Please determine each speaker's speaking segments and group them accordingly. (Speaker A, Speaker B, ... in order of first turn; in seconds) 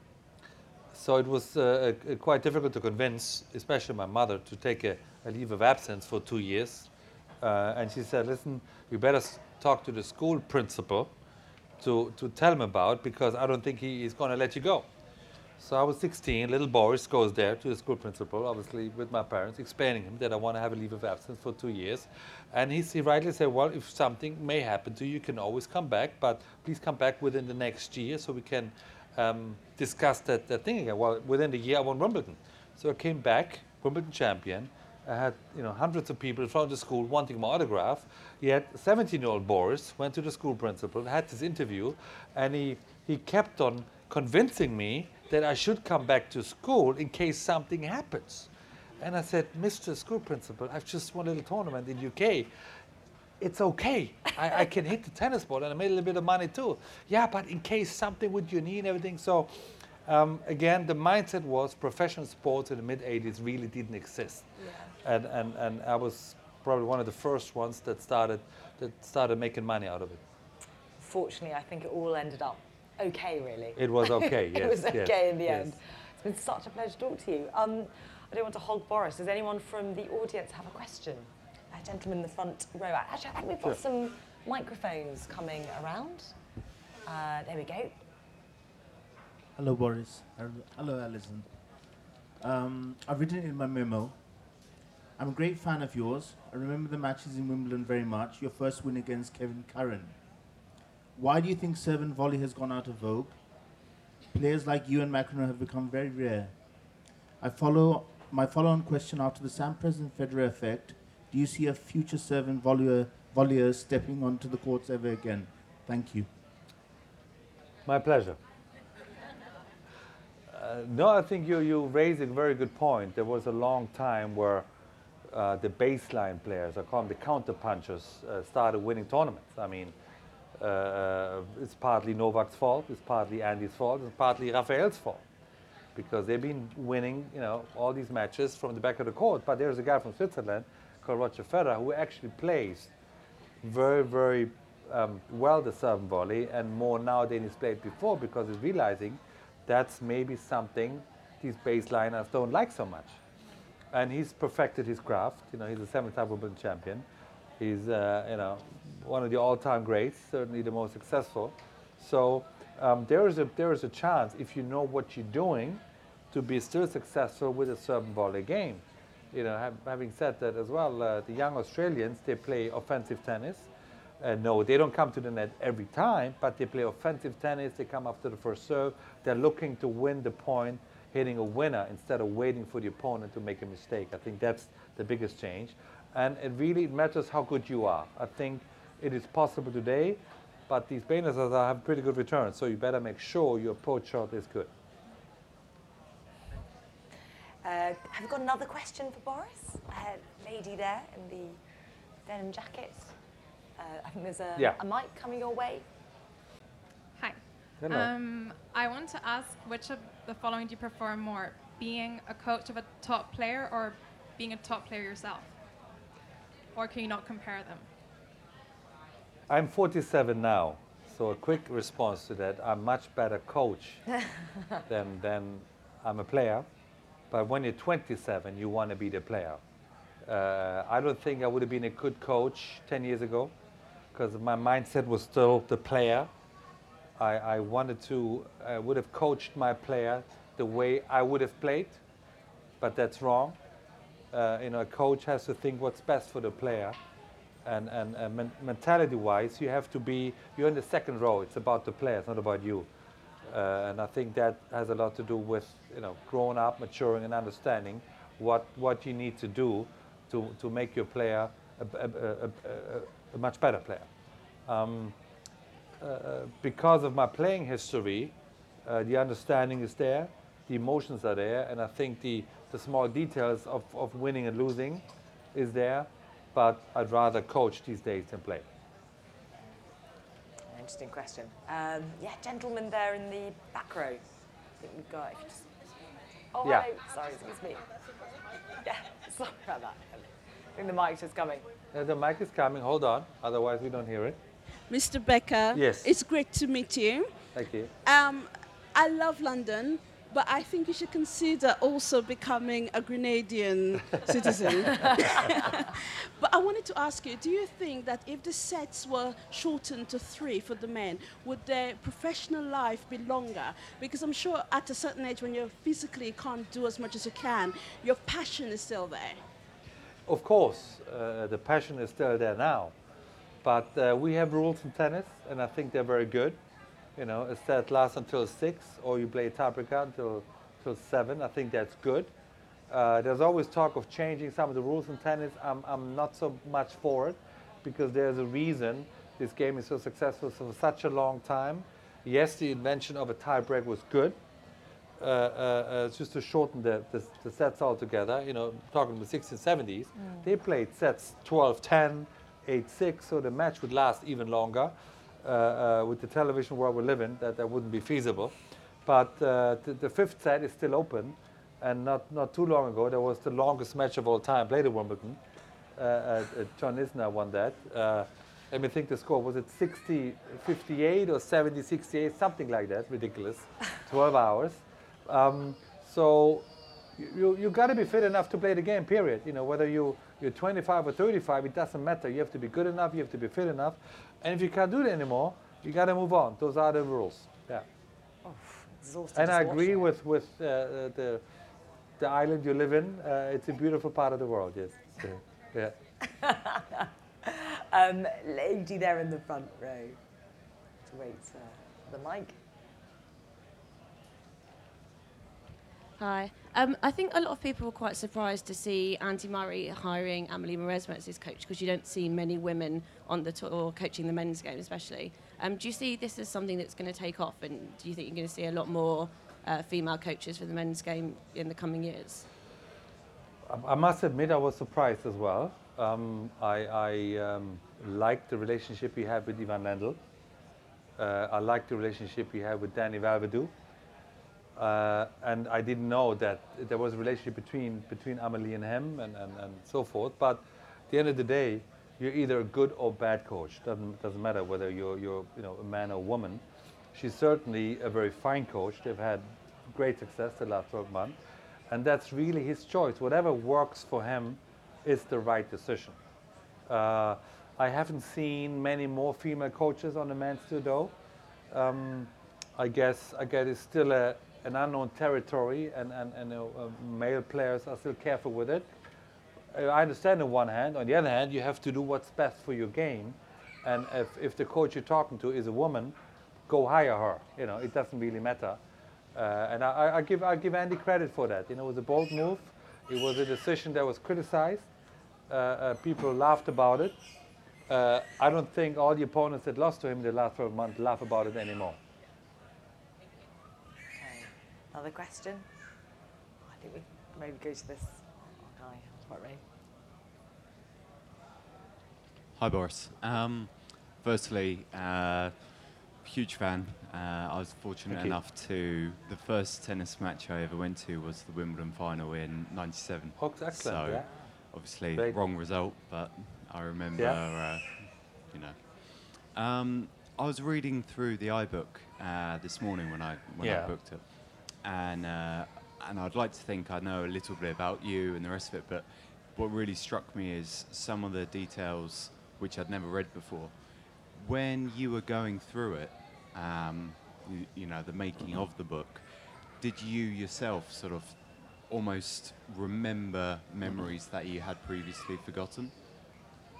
Speaker A: 0.9-6.9, 7.4-11.1, 11.8-14.9, 15.6-52.5, 53.4-64.5, 65.0-70.2, 73.8-75.7, 117.8-118.4, 120.5-124.7, 125.3-129.9, 130.6-135.2, 135.9-142.9, 143.6-153.2, 153.9-157.0, 157.6-173.7, 174.2-194.7, 207.8-208.1, 219.5-224.0, 224.9-226.7, 227.3-229.6, 230.2-233.5, 234.1-236.3, 237.2-242.0, 242.8-243.6, 244.3-247.0, 247.6-252.9, 253.4-264.1, 264.6-265.1, 266.0-278.6, 291.9-294.4, 295.7-296.1, 297.5-297.9, 320.2-322.9, 323.6-326.6, 327.1-332.3, 332.9-344.4, 345.2-358.5, 359.0-365.4, 365.9-376.6, 377.2-387.9, 389.3-391.4, 392.2-395.9, 423.6-430.2, 431.2-433.7, 434.8-451.4, 451.9-456.2, 456.9-461.1, 461.7-468.9, 469.7-476.1, 476.7-478.8, 479.3-484.9, 485.5-487.1, 487.9-492.0, 508.1-508.4, 513.4-514.3, 517.1-517.4, 523.6-523.9
Speaker B: 64.6-64.9, 71.0-86.3, 87.0-88.0, 197.6-201.6, 202.2-203.1, 203.8-205.8, 280.7-284.2, 284.8-285.7, 286.5-287.8, 288.8-291.6, 350.2-350.4, 388.4-390.1, 396.2-400.2, 401.1-402.6, 494.1-495.6, 496.7-499.6
Speaker C: 89.5-91.5, 92.4-94.1, 95.2-100.1, 101.2-103.4, 104.3-106.5, 107.4-116.3
Speaker D: 207.2-215.5, 216.7-217.8
Speaker E: 294.9-297.3, 298.0-319.4
Speaker F: 406.2-422.4
Speaker G: 502.6-539.2, 539.8-545.9